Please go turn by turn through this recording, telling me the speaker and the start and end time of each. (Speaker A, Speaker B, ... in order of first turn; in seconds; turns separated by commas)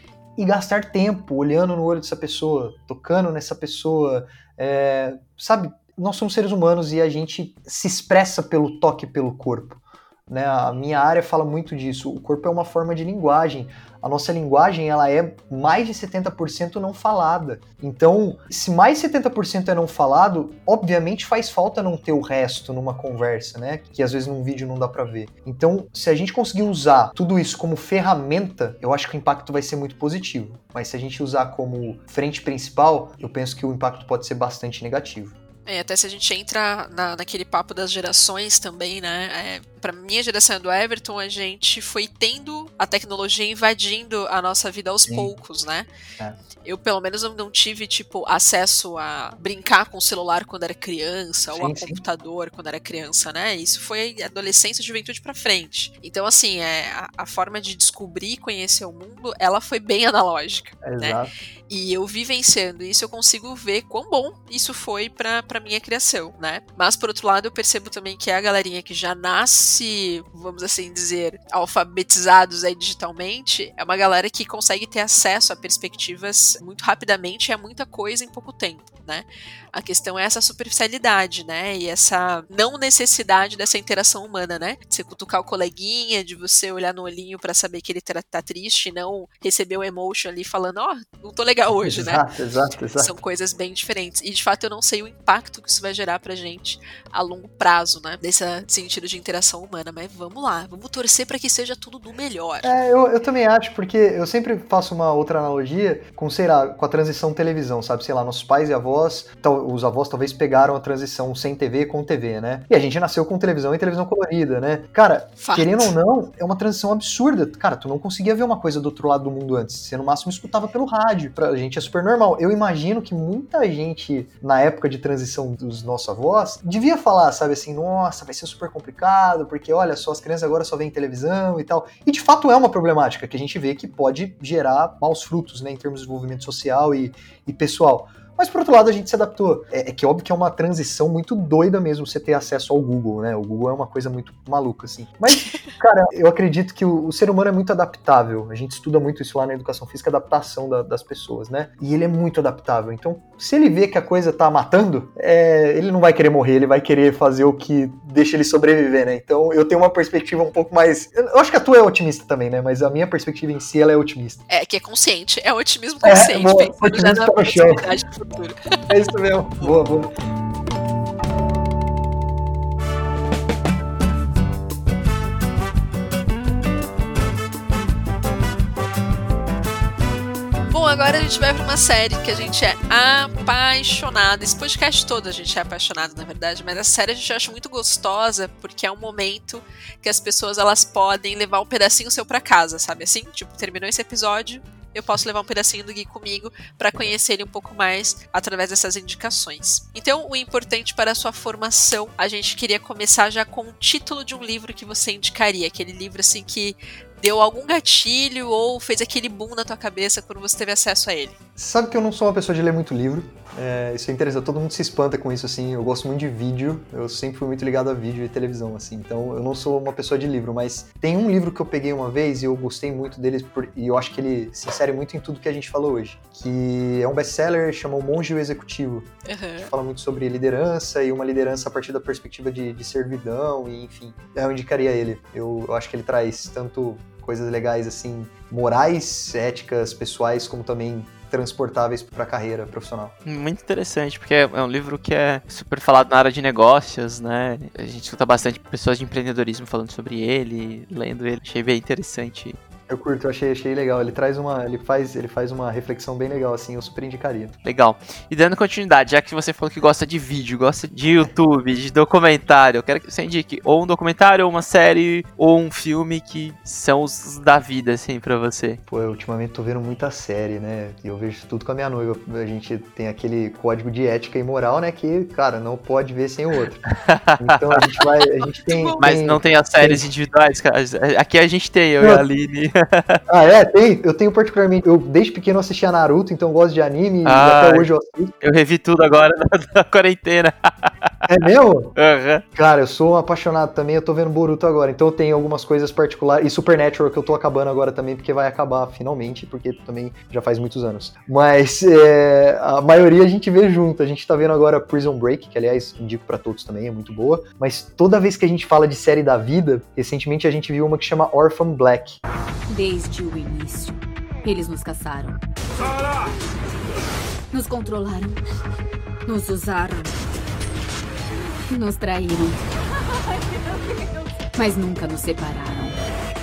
Speaker A: 0.4-35.3, Speaker B: 35.7-45.9, Speaker A: 45.1-45.3, Speaker B: 46.6-92.2, Speaker A: 51.5-52.0, Speaker A: 60.8-61.3, Speaker A: 91.8-93.1, Speaker B: 93.0-102.7, Speaker A: 102.6-164.4, Speaker B: 115.4-115.9, Speaker B: 164.5-168.8, Speaker A: 166.0-167.8, Speaker A: 168.9-170.1, Speaker B: 180.7-211.3, Speaker A: 211.6-243.1, Speaker B: 229.3-229.7, Speaker C: 243.3-252.6, Speaker A: 252.9-257.6, Speaker C: 257.6-268.8, Speaker A: 268.9-276.9, Speaker C: 276.9-277.8, Speaker A: 277.4-280.1, Speaker B: 278.6-279.0, Speaker C: 279.0-283.2, Speaker A: 283.3-288.3, Speaker C: 287.2-287.9, Speaker C: 288.4-291.1, Speaker A: 291.3-291.9, Speaker C: 292.0-292.4, Speaker A: 292.6-312.2, Speaker D: 312.7-315.4, Speaker D: 317.5-318.4, Speaker D: 319.3-320.2, Speaker D: 321.7-322.7, Speaker D: 324.5-326.0